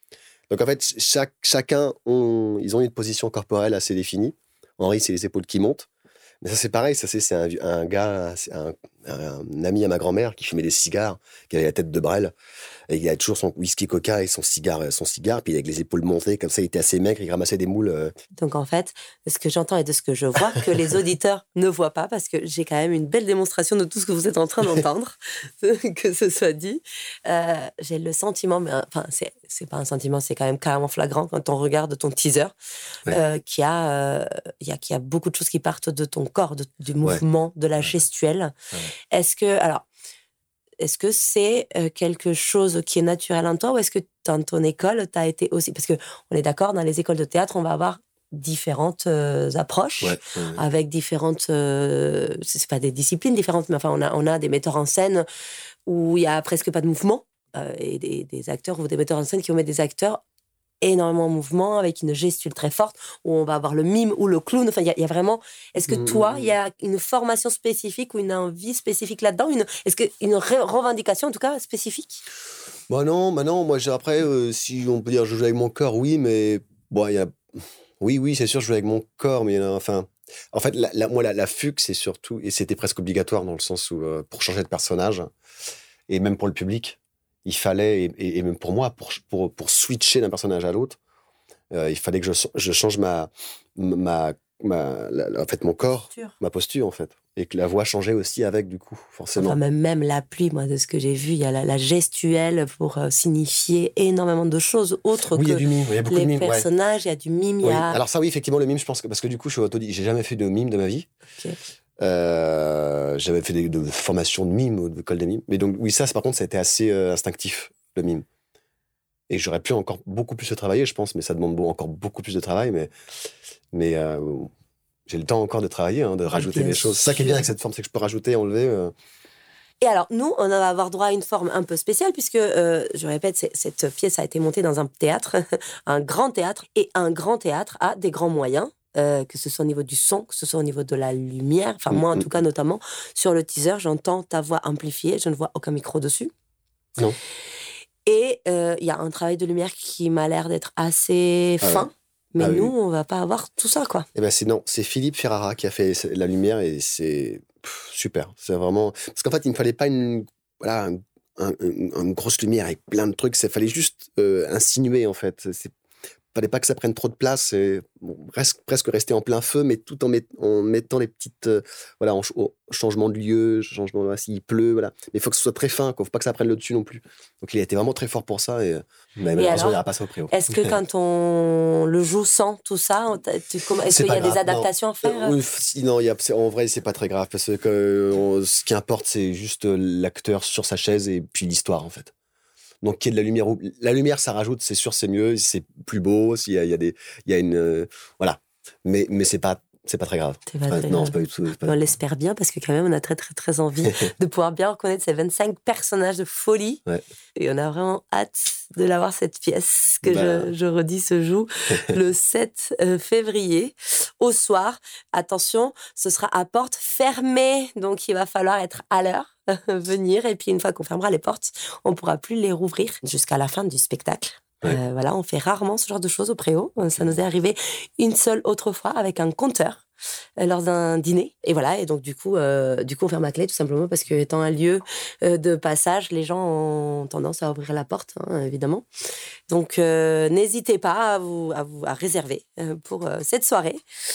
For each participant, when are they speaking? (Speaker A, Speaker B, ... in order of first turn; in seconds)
Speaker A: 0.5-5.9, 6.4-12.3, 12.9-18.1, 50.0-50.6, 65.9-66.5, 72.9-77.4, 78.0-85.3, 86.1-91.0, 91.7-99.6, 105.3-106.7, 107.6-111.1, 112.0-118.2, 119.3-122.9, 123.7-124.5, 125.1-128.9, 141.9-142.3, 151.6-152.7, 154.1-165.7, 166.3-180.8, 183.9-192.1, 192.8-201.8, 210.0-210.5
Speaker B: 18.4-32.5, 33.1-38.5, 39.1-39.9, 40.8-55.2, 55.9-60.2, 60.8-72.2, 99.3-108.0, 126.3-127.4, 129.8-146.3, 148.1-154.1, 179.4-185.4, 200.5-206.8, 207.4-229.8, 230.4-238.8, 239.5-243.8